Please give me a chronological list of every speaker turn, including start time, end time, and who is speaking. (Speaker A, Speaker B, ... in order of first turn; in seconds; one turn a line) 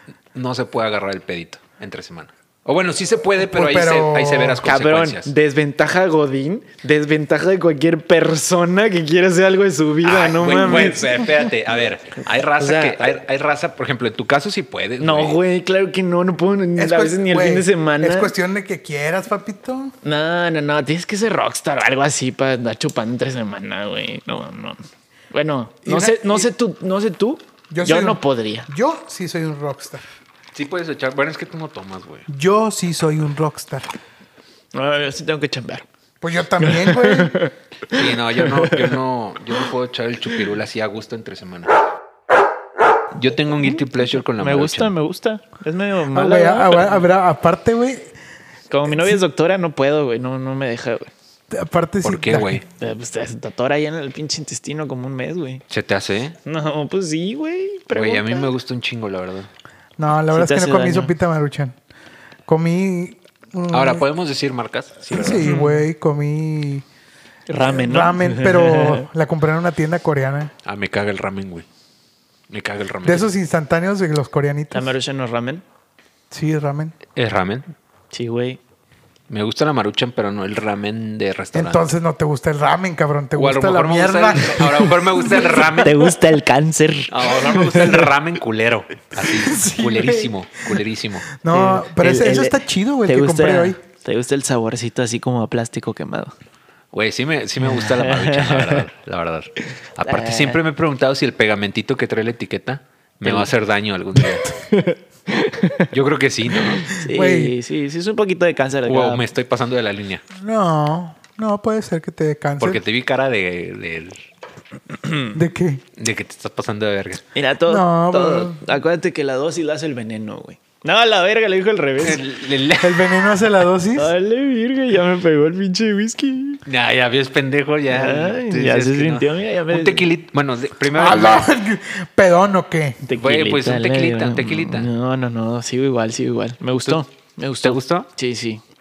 Speaker A: 0.3-5.3
Speaker B: 3.4-4.7
Speaker C: 4.6-11.4
Speaker A: 10.0-15.4
Speaker C: 12.6-13.2
Speaker C: 15.0-18.3
Speaker B: 16.8-19.9
Speaker C: 20.0-28.7
Speaker B: 25.9-26.5
Speaker B: 27.7-30.0
Speaker A: 30.5-32.3
Speaker B: 32.3-33.9
Speaker C: 34.7-35.9
Speaker B: 36.2-37.4
Speaker C: 36.6-38.9
Speaker A: 37.9-41.7
Speaker A: 43.1-44.9
Speaker C: 44.4-47.0
Speaker B: 46.1-48.1
Speaker C: 48.7-51.1
Speaker B: 51.5-52.6
Speaker A: 52.0-52.6
Speaker C: 52.8-55.6
Speaker A: 55.7-56.4
Speaker C: 56.5-58.5
Speaker A: 57.9-59.5
Speaker B: 60.0-61.8
Speaker C: 60.3-61.1
Speaker B: 62.5-64.0
Speaker A: 63.7-65.5
Speaker B: 65.1-66.8
Speaker C: 65.3-65.8
Speaker C: 67.5-69.0
Speaker B: 67.6-70.5
Speaker A: 70.7-71.7
Speaker A: 72.5-73.3
Speaker B: 73.0-74.9
Speaker C: 74.7-75.6
Speaker B: 76.3-77.0
Speaker A: 77.2-77.7
Speaker C: 78.1-78.6
Speaker A: 79.3-81.8
Speaker B: 81.5-85.9
Speaker A: 83.3-86.0
Speaker C: 85.8-88.1
Speaker A: 87.1-91.3
Speaker B: 89.2-90.3
Speaker B: 91.4-93.8
Speaker C: 91.5-96.3
Speaker A: 96.9-104.5
Speaker C: 97.6-98.8
Speaker C: 100.0-100.6
Speaker C: 103.2-103.5
Speaker C: 104.7-105.9
Speaker A: 105.9-106.9
Speaker C: 106.6-109.2
Speaker B: 107.1-107.5
Speaker A: 108.9-110.2
Speaker B: 110.3-112.8
Speaker A: 112.6-114.2
Speaker C: 114.9-115.3
Speaker B: 115.3-115.8
Speaker A: 116.0-117.2
Speaker C: 117.3-122.2
Speaker B: 117.7-118.6
Speaker A: 122.0-123.2
Speaker B: 122.8-124.1
Speaker C: 124.0-126.6
Speaker A: 126.7-131.4
Speaker C: 127.9-130.1
Speaker B: 130.9-133.0
Speaker C: 133.1-138.6
Speaker A: 133.2-134.9
Speaker A: 137.6-138.1